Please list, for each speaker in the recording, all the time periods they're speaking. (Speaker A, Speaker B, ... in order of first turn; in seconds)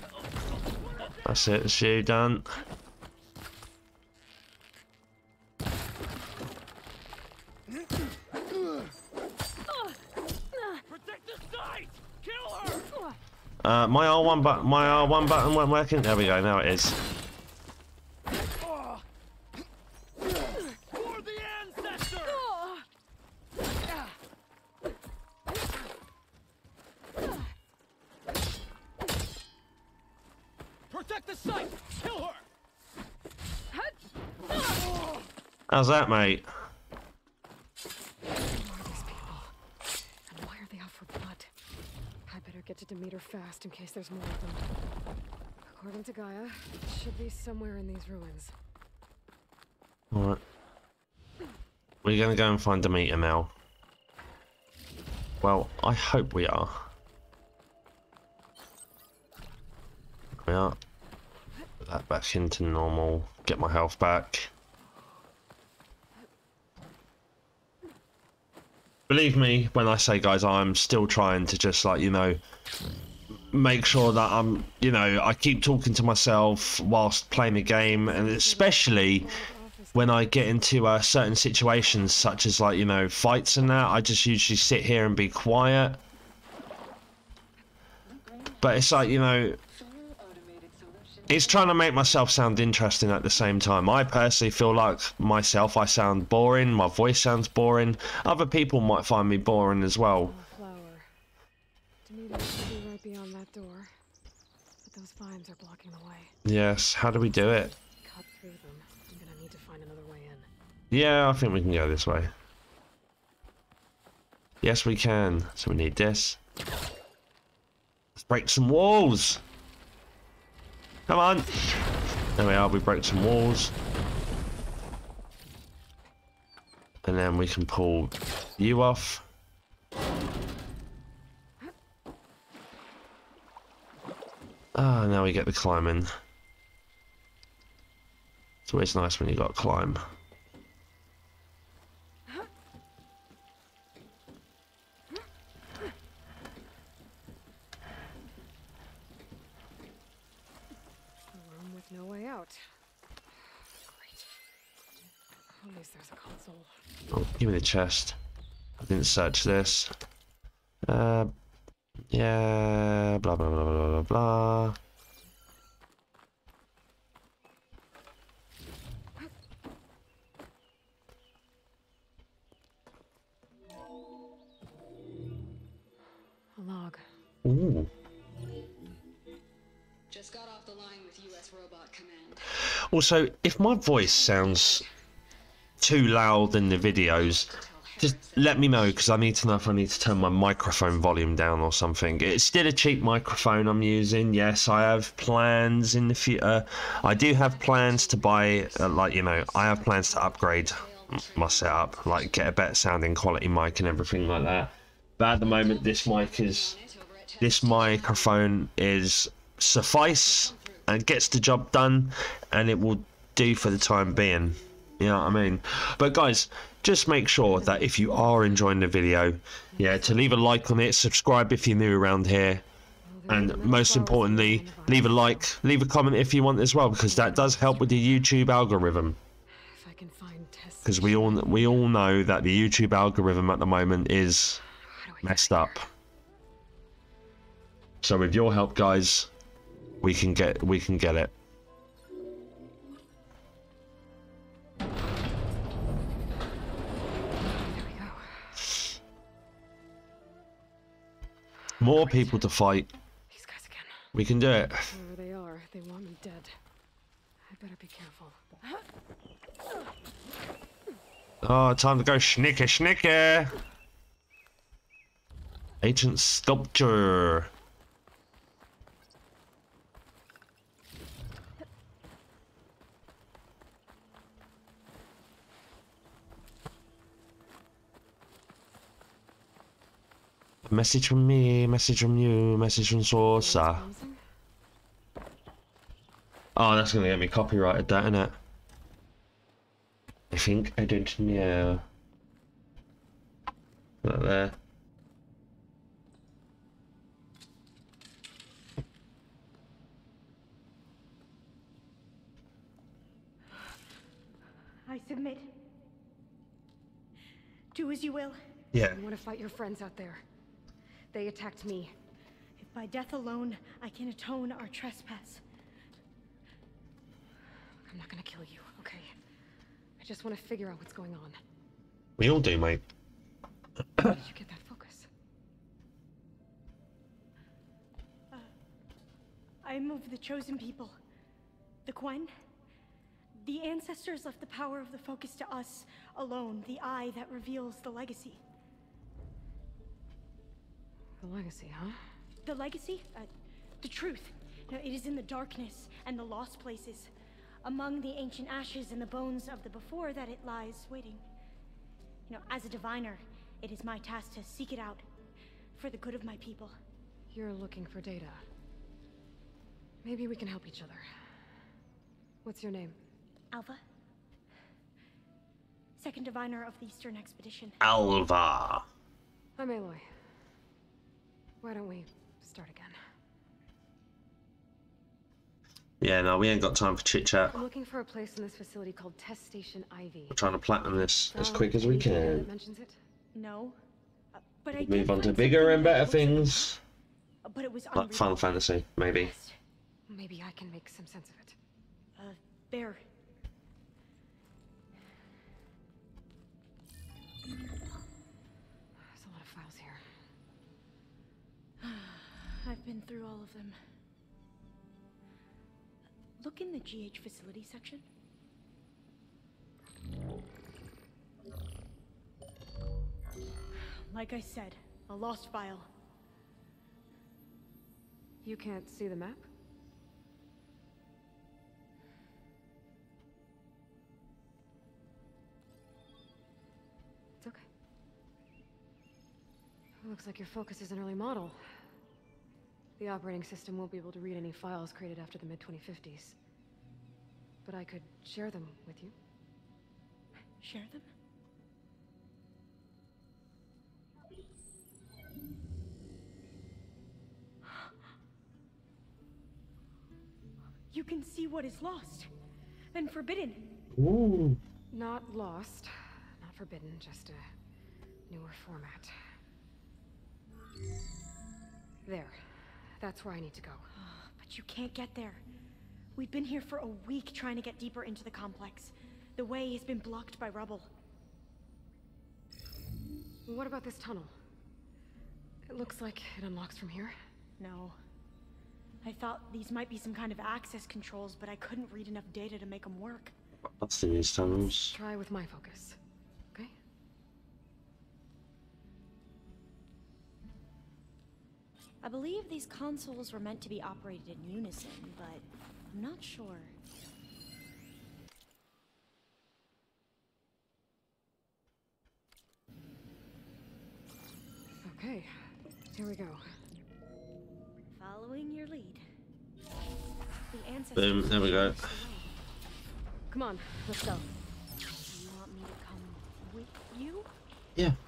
Speaker A: 1.2-2.5, 13.6-17.0, 35.7-36.5, 50.1-50.4, 52.0-53.5, 55.4-56.9, 60.4-60.8, 61.8-64.5, 69.1-72.4, 73.5-79.3, 79.9-86.0, 88.6-89.6, 91.3-100.3, 106.4-107.8, 110.9-112.3, 114.6-116.4, 118.2-119.4, 121.1-121.6, 122.4-123.7, 127.0-129.3, 134.7-136.1, 138.7-140.0, 157.1-158.2, 158.8-159.9, 160.8-161.3, 162.1-164.8, 177.4-177.9, 182.9-184.9, 185.8-206.8, 207.4-222.6, 223.3-229.2, 230.8-234.6, 235.2-235.8, 238.0-239.3, 240.0-241.3, 251.8-252.9, 254.1-254.9, 261.4-263.5, 265.8-267.5, 280.6-283.9, 286.6-288.4, 290.3-291.8, 294.0-294.6, 308.7-309.0, 322.2-322.8, 367.8-368.9, 376.0-377.6, 380.3-382.5, 384.7-386.8, 387.9-389.3, 453.9-454.6, 483.8-484.9, 510.9-511.8
Speaker B: 10.9-12.9, 20.9-22.4, 30.9-32.4
Speaker C: 38.5-39.5, 40.3-41.5, 42.2-44.6, 45.6-48.5, 77.8-80.4, 100.2-101.1, 102.0-103.9, 104.8-106.3, 108.0-110.5, 151.3-152.6, 153.4-154.3, 155.5-156.7, 176.5-177.0, 217.6-217.9, 219.7-220.2, 223.0-225.5, 227.1-228.2, 229.7-231.8, 234.8-235.8, 247.5-248.6, 251.8-252.5, 253.3-254.0, 254.9-256.5, 257.5-258.4, 283.1-284.2, 308.9-310.2, 311.1-311.9, 317.9-319.1, 320.0-321.4, 324.0-325.1, 341.2-342.0, 357.3-358.4, 360.0-361.0, 362.4-363.0, 369.6-370.1, 371.6-372.9, 377.5-380.4, 381.3-383.0, 390.1-391.6, 399.1-400.0, 418.4-419.5, 427.4-427.6, 430.0-431.6, 433.0-436.4, 437.6-439.1, 454.9-457.4, 458.3-459.1, 462.1-462.4, 463.0-463.9, 473.4-474.3, 475.7-477.2, 484.8-486.0, 504.8-505.3, 505.9-506.4, 513.3-514.3
Speaker D: 88.0-92.3, 180.1-182.5, 184.3-184.8, 187.1-191.0, 197.0-202.6, 205.4-208.3, 210.2-210.9
Speaker E: 304.9-305.5, 307.7-308.4, 312.6-315.4, 329.6-330.9, 331.9-332.3, 333.4-338.4, 342.4-343.3, 343.8-347.1, 347.6-351.2, 352.3-355.0, 355.7-356.8, 363.5-363.8, 366.0-367.8, 383.3-383.8, 384.3-386.7, 387.4-388.4, 389.1-389.6, 392.2-393.0, 401.8-403.8, 406.4-408.0, 414.1-415.9, 440.6-441.1, 447.6-447.9, 450.9-452.3, 452.9-453.7, 463.9-465.4, 466.1-470.9, 477.6-478.0, 479.0-483.3, 492.0-496.7, 507.9-509.0, 510.5-512.3, 515.1-517.3